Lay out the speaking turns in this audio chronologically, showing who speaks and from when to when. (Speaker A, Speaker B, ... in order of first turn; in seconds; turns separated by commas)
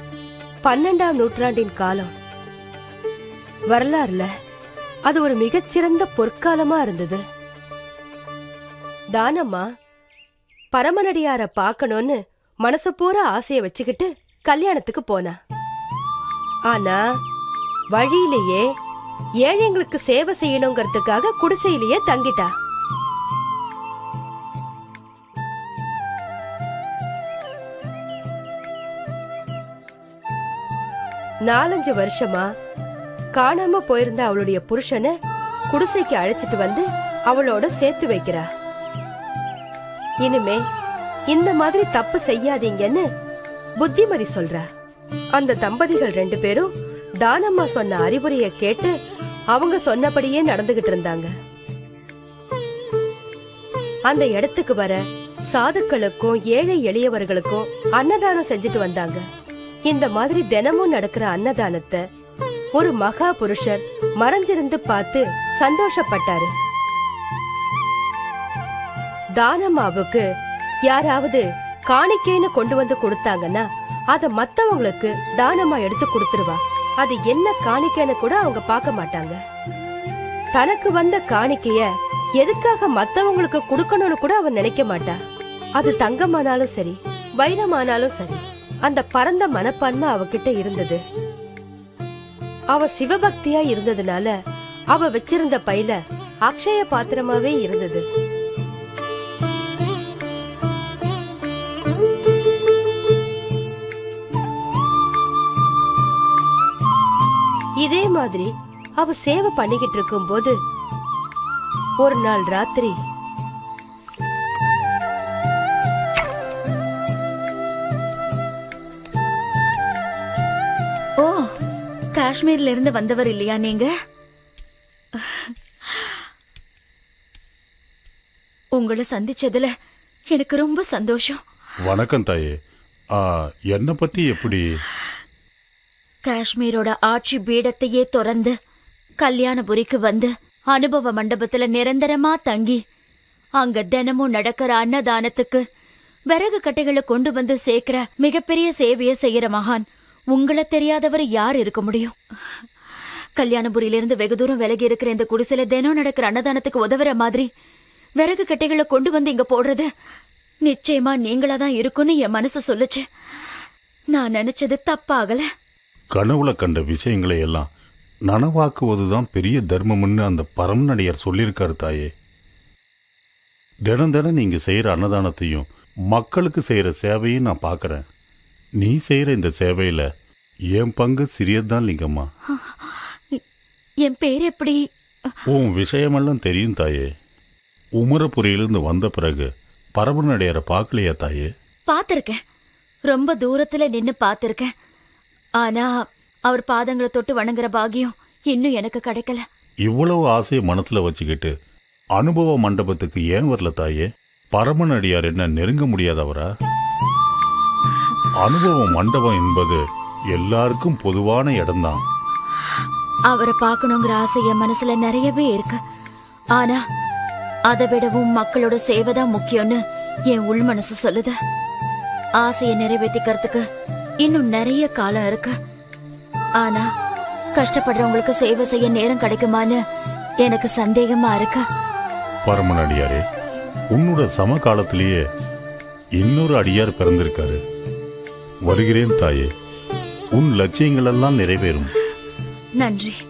Speaker A: 0.6-2.1, Speaker A: 3.7-4.3, Speaker A: 5.1-7.2, Speaker A: 9.1-9.6, Speaker A: 10.7-15.3, Speaker A: 16.7-17.0, Speaker A: 17.9-18.6, Speaker A: 19.4-22.5, Speaker A: 31.5-32.4, Speaker A: 33.4-35.1, Speaker A: 35.7-38.5, Speaker A: 40.2-40.6, Speaker A: 41.3-43.0, Speaker A: 43.8-44.6, Speaker A: 45.4-46.7, Speaker A: 47.2-48.9, Speaker A: 49.5-51.3, Speaker A: 54.1-55.0, Speaker A: 55.5-59.2, Speaker A: 59.9-62.0, Speaker A: 62.8-66.5, Speaker A: 69.4-70.2, Speaker A: 70.9-79.4, Speaker A: 80.5-81.8, Speaker A: 82.4-85.2, Speaker A: 85.8-91.0, Speaker A: 92.7-94.3, Speaker A: 94.9-98.0, Speaker A: 107.8-110.5, Speaker A: 112.0-112.9, Speaker B: 121.2-121.5, Speaker B: 122.1-123.9, Speaker B: 128.8-129.7, Speaker B: 130.3-131.4, Speaker C: 131.9-132.5, Speaker C: 133.2-134.7, Speaker B: 136.2-138.5, Speaker B: 139.2-142.8, Speaker B: 143.6-145.6, Speaker B: 146.3-152.1, Speaker B: 153.4-157.5, Speaker B: 158.2-159.9, Speaker B: 160.7-163.1, Speaker B: 164.1-165.4, Speaker C: 166.1-167.7, Speaker C: 168.3-172.1, Speaker C: 173.8-178.0, Speaker C: 178.8-180.0, Speaker C: 180.8-182.2, Speaker B: 182.6-183.4, Speaker B: 184.1-184.8, Speaker C: 185.5-187.0, Speaker C: 188.0-191.5, Speaker B: 191.9-192.4, Speaker B: 193.1-194.7, Speaker B: 195.6-195.9, Speaker B: 196.5-199.4, Speaker C: 199.9-201.5, Speaker C: 202.2-206.4, Speaker C: 208.4-209.8, Speaker C: 210.3-212.0, Speaker B: 213.3-215.8, Speaker B: 217.7-221.4, Speaker B: 222.4-223.6, Speaker B: 224.2-225.5, Speaker B: 227.6-229.8, Speaker B: 230.4-231.6, Speaker C: 232.4-233.2, Speaker C: 233.9-235.2, Speaker C: 236.2-237.6, Speaker C: 238.7-239.5, Speaker C: 240.3-241.9, Speaker B: 242.8-243.2